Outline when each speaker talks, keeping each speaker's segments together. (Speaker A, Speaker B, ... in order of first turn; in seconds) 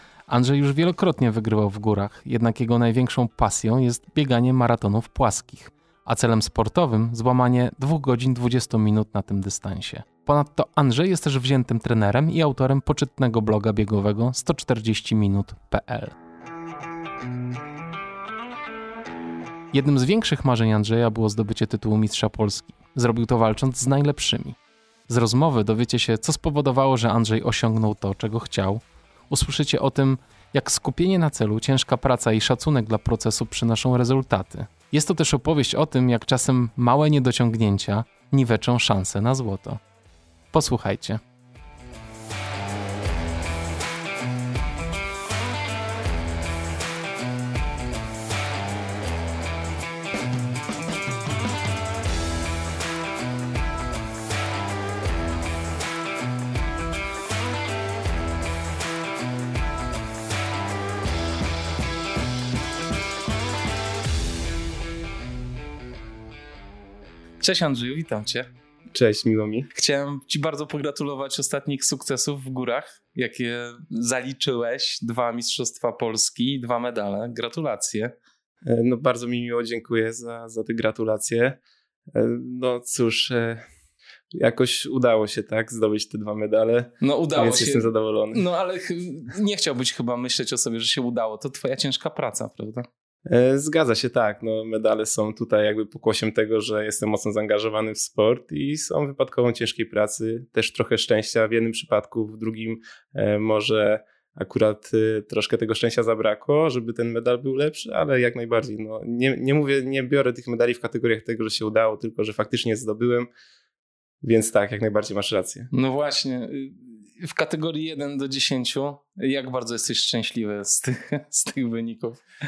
Speaker A: 0.3-16.1, 19.7-39.8, 40.5-41.2, 67.4-68.5, 69.7-78.1, 87.0-92.9, 115.7-122.2
Speaker B: 68.9-69.7, 78.6-81.6, 82.1-83.6, 84.3-88.4, 93.3-113.3, 114.2-115.7